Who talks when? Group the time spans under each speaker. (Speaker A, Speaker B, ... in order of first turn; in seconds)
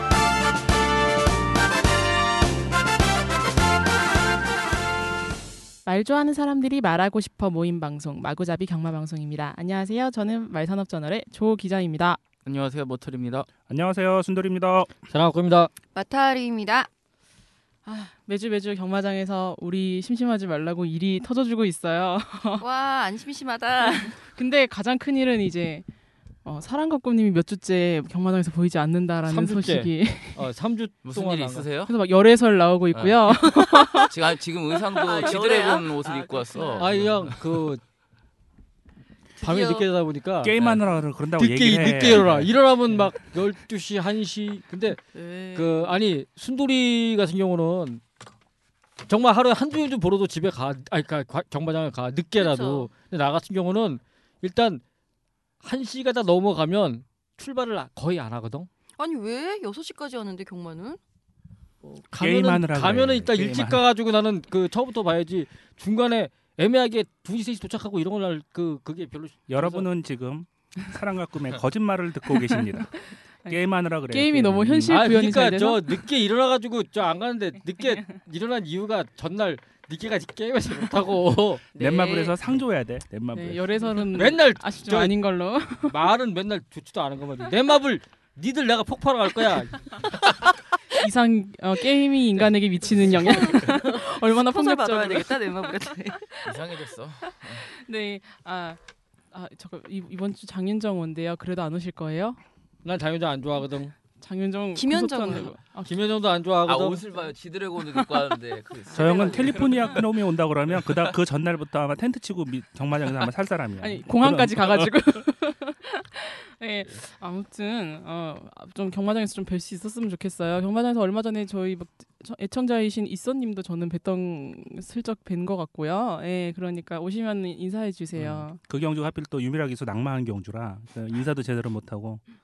Speaker A: 5.8-12.2, 17.9-22.6, 23.9-25.8, 26.4-30.5, 31.9-34.1, 72.3-76.1, 77.7-78.2, 83.3-86.0, 91.0-96.5, 97.2-98.8, 99.3-102.4, 104.2-106.0, 107.9-108.2, 108.8-110.0, 113.8-128.6
Speaker B: 12.4-13.5, 31.0-31.9, 32.9-33.2, 33.9-37.5, 42.1-42.5, 96.4-97.7, 106.6-110.0, 110.7-111.1
Speaker C: 13.7-14.9, 40.4-42.3, 62.2-63.9, 69.5-72.9, 73.5-75.0, 81.8-83.8, 108.9-114.9, 128.2-132.2
Speaker D: 15.1-15.7, 29.2-31.7, 36.8-37.8, 39.4-40.5, 41.4-45.0, 45.5-48.0, 49.0-54.8, 55.6-58.7, 61.8-69.9, 74.9-81.7, 84.0-85.2, 85.9-90.1, 102.8-103.9, 105.8-107.0
Speaker E: 15.9-16.9, 22.6-24.2, 34.9-37.0, 39.4-39.9, 45.1-46.0, 52.4-52.9, 59.0-61.0, 81.7-82.3, 93.2-96.3, 104.7-105.5